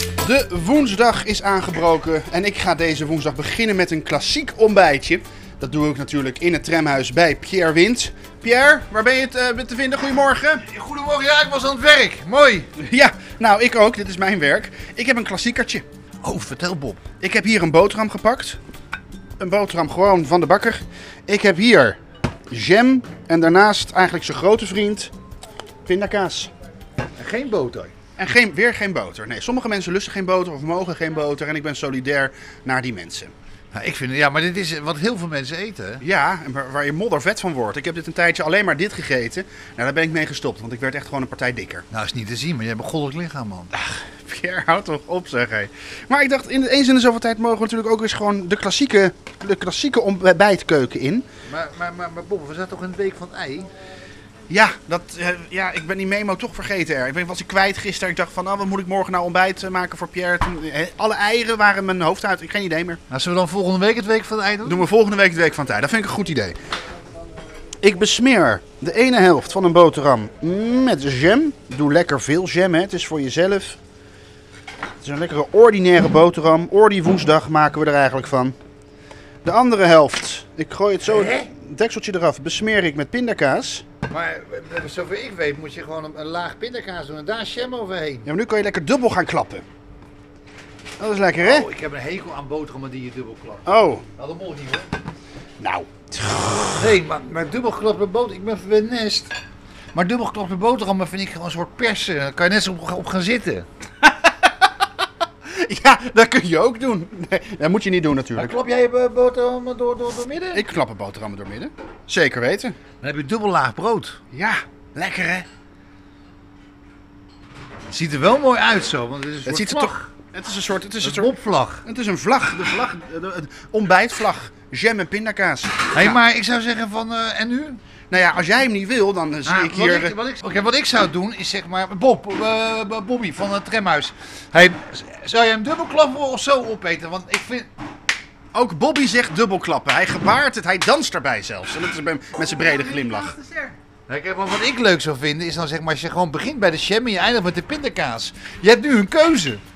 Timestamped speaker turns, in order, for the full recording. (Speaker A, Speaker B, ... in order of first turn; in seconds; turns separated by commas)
Speaker A: 0.2-10.7, Speaker B: 10.6-12.7, Speaker A: 12.8-15.8, Speaker B: 16.2-17.0, Speaker A: 17.2-18.6, Speaker A: 19.4-22.0, Speaker A: 22.5-25.1, Speaker A: 25.8-26.5, Speaker B: 27.2-27.9, Speaker A: 28.2-33.3, Speaker B: 33.7-36.0, Speaker A: 36.0-41.8, Speaker B: 41.9-43.7, Speaker A: 43.7-51.2, Speaker B: 51.5-53.7, Speaker A: 54.5-63.0, Speaker B: 63.1-64.8, Speaker A: 64.6-66.6, Speaker A: 67.8-73.8, Speaker A: 75.0-78.5, Speaker A: 79.4-83.8, Speaker B: 81.0-81.5, Speaker B: 84.1-88.3, Speaker A: 88.2-89.6, Speaker A: 91.0-91.7, Speaker B: 91.4-94.9, Speaker A: 93.7-94.0, Speaker A: 95.6-96.6, Speaker B: 96.7-99.3, Speaker B: 99.9-103.7, Speaker A: 105.5-108.6, Speaker B: 108.4-110.6, Speaker A: 110.5-112.8, Speaker B: 113.0-114.2, Speaker A: 114.3-115.5, Speaker B: 117.9-120.1, Speaker A: 119.5-126.2, Speaker B: 121.0-121.8, Speaker B: 125.9-127.8, Speaker A: 128.1-130.2, Speaker B: 129.4-137.7, Speaker A: 138.5-143.3, Speaker B: 143.0-149.6